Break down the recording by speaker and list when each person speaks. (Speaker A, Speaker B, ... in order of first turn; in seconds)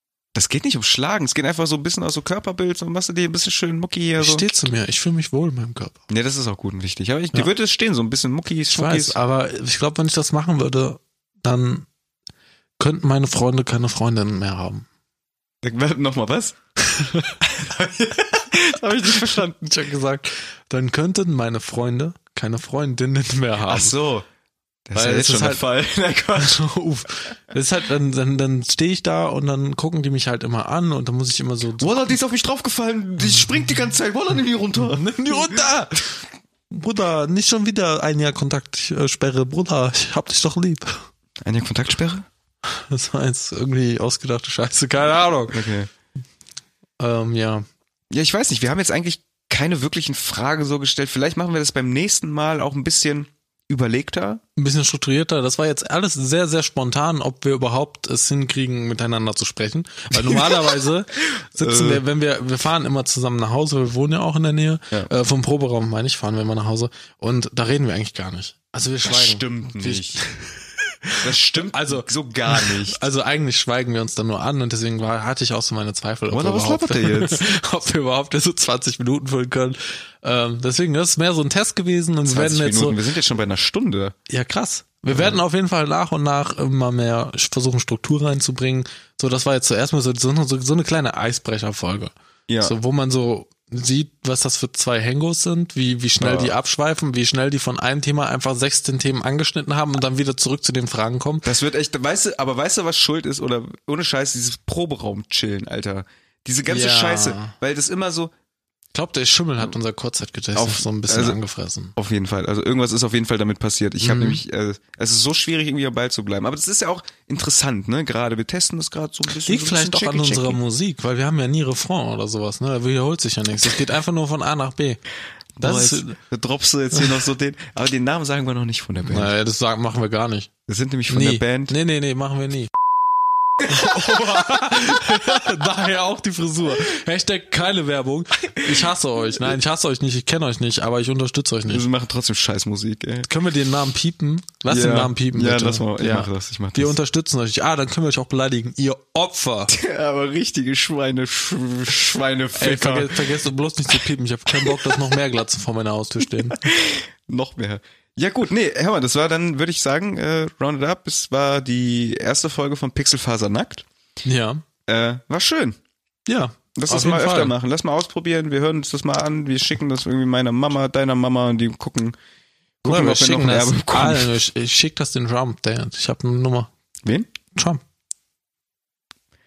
Speaker A: 0.3-4.5, 6.1-9.2, 15.6-16.6, 17.4-19.7, 23.7-24.2, 24.9-26.6, 31.8-35.6, 41.4-42.2, 45.5-45.9, 48.1-54.4, 60.1-60.8, 61.5-62.0, 69.0-70.2, 71.2-73.0, 76.3-77.4, 82.3-84.2, 85.1-85.4, 92.5-92.7, 96.2-96.5, 101.4-108.3, 110.5-111.4, 112.0-120.6, 125.6-129.3, 130.7-131.7, 138.6-139.6, 141.7-143.3, 144.7-146.9, 149.7-153.3, 154.6-154.9, 156.5-163.8, 164.9-165.8, 166.8-172.2, 172.8-174.3
Speaker B: 4.2-6.0, 8.7-11.9, 12.8-14.8, 16.9-17.4, 19.1-23.9, 24.9-25.6, 26.4-32.2, 34.8-41.0, 42.6-45.6, 47.0-47.6, 54.5-70.5, 71.7-83.0, 84.3-101.5, 106.7-107.5, 108.9-111.9, 114.0-114.4, 119.4-125.0, 125.6-126.2, 129.0-130.5, 131.1-132.7, 133.6-141.8, 143.2-149.7, 152.5-156.6, 164.2-164.6, 166.3-167.5, 172.8-176.7, 177.5-177.8